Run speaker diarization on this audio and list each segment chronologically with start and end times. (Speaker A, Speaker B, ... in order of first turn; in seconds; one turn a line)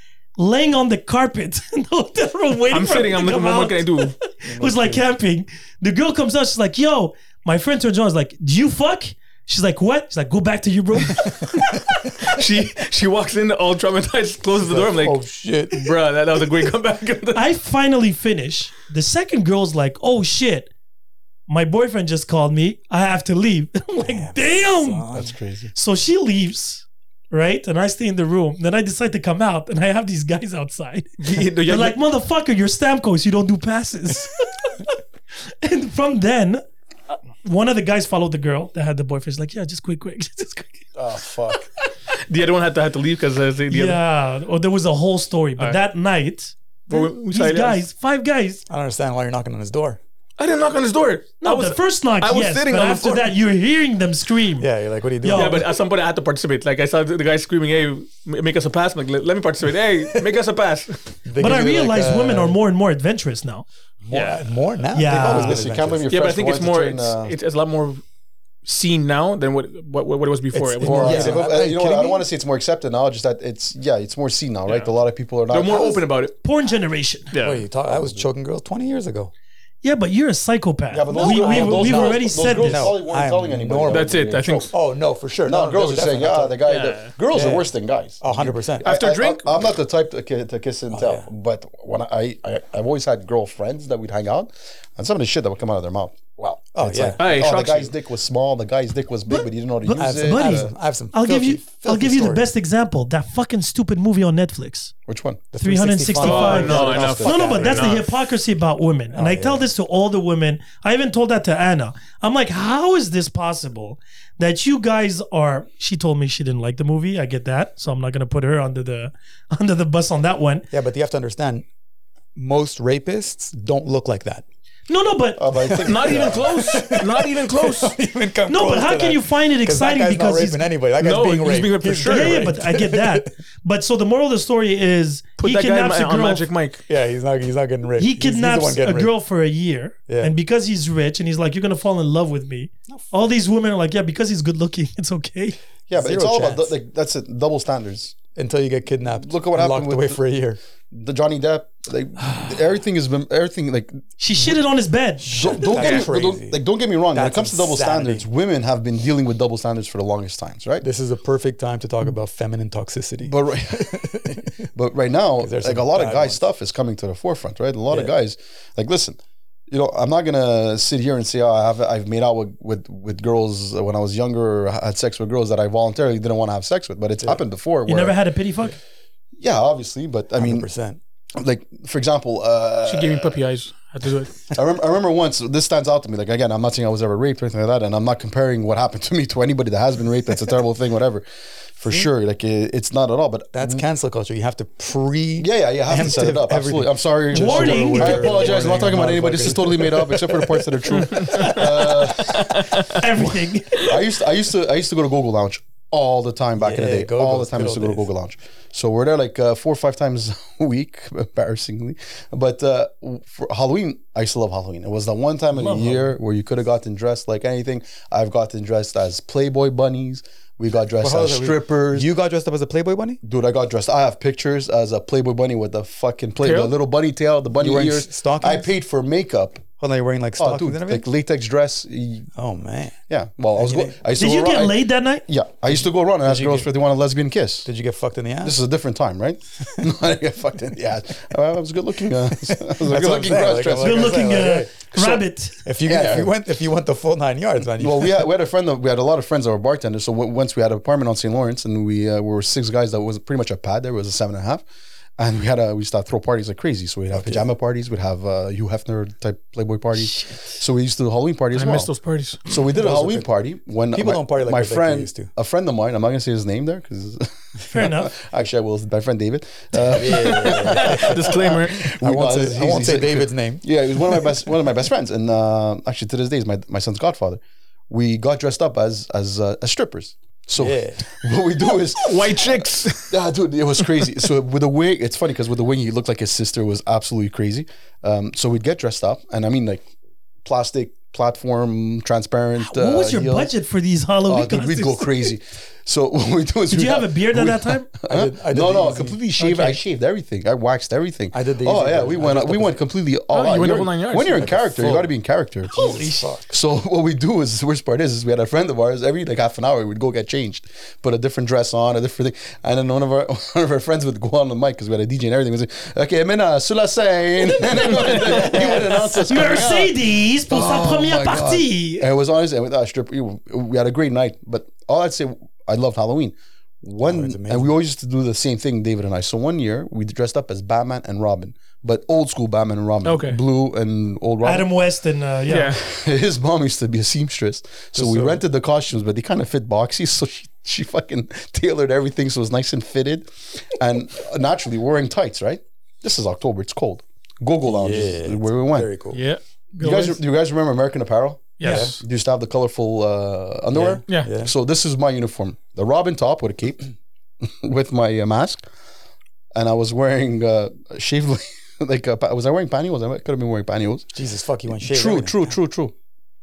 Speaker A: 0.4-11.8
Speaker B: 2.7-4.2
Speaker C: 4.5-5.0
Speaker B: 11.5-17.5
Speaker C: 14.6-15.9
Speaker A: 17.3-20.7
Speaker A: 21.5-25.1
Speaker C: 24.0-25.3
Speaker D: 25.1-25.7
Speaker A: 25.8-31.1
Speaker B: 31.2-32.0
Speaker A: 31.7-35.0
Speaker A: 35.6-36.6
Speaker A: 37.4-40.9
Speaker D: 41.0-41.7
Speaker B: 42.3-44.0
Speaker A: 43.7-48.6
Speaker B: 46.9-47.8
Speaker C: 48.7-50.0
Speaker B: 50.4-53.3
Speaker A: 51.4-54.7
Speaker C: 54.6-55.7
Speaker A: 55.2-55.6
Speaker B: 55.3-61.0
Speaker C: 61.3-62.6
Speaker A: 61.4-63.7
Speaker C: 64.0-66.1
Speaker B: 64.1-64.4
Speaker A: 64.9-65.6
Speaker D: 65.0-67.3
Speaker B: 66.1-68.0
Speaker B: 68.6-71.4
Speaker C: 70.5-72.2
Speaker D: 70.8-76.0
Speaker B: 75.5-76.3
Speaker A: 76.4-77.3
Speaker B: 77.3-77.6
Speaker C: 77.4-79.3
Speaker D: 77.8-78.3
Speaker A: 79.8-83.0
Speaker D: 80.9-84.7
Speaker C: 81.1-84.1
Speaker B: 83.9-84.7
Speaker C: 84.7-86.7
Speaker D: 85.5-100.7
Speaker B: 86.7-87.1
Speaker C: 87.3-88.9
Speaker B: 88.8-89.5
Speaker C: 90.9-91.3
Speaker C: 96.7-97.2
Speaker B: 97.2-97.9
Speaker A: 99.8-104.9
Speaker C: 100.0-102.5
Speaker D: 105.1-105.5
Speaker C: 105.5-108.0
Speaker A: 105.6-120.7
Speaker D: 106.1-107.5
Speaker B: 106.2-108.1
Speaker C: 109.1-109.7
Speaker C: 120.7-121.7
Speaker C: 122.4-124.5
Speaker A: 124.9-125.5
Speaker D: 125.4-126.6
Speaker C: 125.7-133.3
Speaker B: 125.8-128.0
Speaker A: 128.5-130.6
Speaker B: 131.0-132.6
Speaker A: 132.1-136.5
Speaker B: 135.4-136.8
Speaker C: 136.9-139.1
Speaker A: 138.0-145.6
Speaker C: 140.1-140.3
Speaker C: 142.9-143.3
Speaker D: 145.9-148.2
Speaker C: 145.9-146.7
Speaker C: 148.3-150.6
Speaker D: 149.2-150.2
Speaker D: 150.9-154.6
Speaker A: 154.2-155.5
Speaker C: 155.2-156.6
Speaker D: 155.3-160.8
Speaker C: 157.1-158.3
Speaker C: 160.8-164.6
Speaker D: 163.2-178.2
Speaker C: 165.4-166.4
Speaker A: 177.9-178.8
Speaker D: 179.4-180.7
Speaker C: 180.3-181.0
Speaker D: 181.4-183.4
Speaker B: 182.9-184.3
Speaker D: 184.5-191.2
Speaker D: 191.8-193.8
Speaker C: 193.5-201.9
Speaker D: 195.4-222.1
Speaker A: 197.3-198.6
Speaker B: 201.0-203.0
Speaker A: 202.9-203.9
Speaker C: 206.6-208.1
Speaker A: 215.7-216.0
Speaker C: 221.0-223.2
Speaker D: 223.2-229.6
Speaker B: 226.4-226.7
Speaker C: 227.6-228.7
Speaker C: 229.8-231.1
Speaker D: 230.4-232.3
Speaker C: 232.3-233.0
Speaker D: 233.1-237.7
Speaker C: 233.6-234.0
Speaker A: 234.2-235.2
Speaker C: 236.2-236.7
Speaker C: 237.6-238.6
Speaker D: 238.4-245.2
Speaker C: 242.3-245.1
Speaker A: 243.8-245.6
Speaker C: 245.6-248.3
Speaker D: 245.8-246.3
Speaker D: 247.8-254.6
Speaker D: 255.2-261.9
Speaker C: 257.1-257.4
Speaker B: 261.5-262.6
Speaker D: 262.5-289.9
Speaker C: 262.8-263.3
Speaker C: 263.9-265.3
Speaker A: 267.7-268.1
Speaker C: 269.9-273.6
Speaker B: 270.3-271.8
Speaker C: 280.6-281.1
Speaker B: 282.0-283.2
Speaker D: 290.4-293.5
Speaker A: 292.6-295.3
Speaker D: 294.3-305.8
Speaker A: 296.7-297.9
Speaker C: 298.1-299.2
Speaker A: 299.4-299.8
Speaker C: 301.3-302.8
Speaker B: 303.3-304.5
Speaker C: 304.4-305.1
Speaker A: 305.7-306.3
Speaker C: 305.7-306.4
Speaker D: 306.5-320.0
Speaker A: 318.1-322.1
Speaker D: 320.5-334.7
Speaker C: 327.0-327.7
Speaker B: 333.1-333.4
Speaker A: 334.4-335.8
Speaker B: 335.5-335.8
Speaker D: 335.7-348.9
Speaker C: 337.9-338.4
Speaker C: 347.7-349.2
Speaker B: 349.1-350.2
Speaker D: 349.8-356.9
Speaker B: 351.6-352.0
Speaker C: 351.7-351.9
Speaker C: 353.7-354.5
Speaker D: 357.4-358.6
Speaker D: 359.6-364.1
Speaker C: 364.1-365.5
Speaker D: 364.7-365.9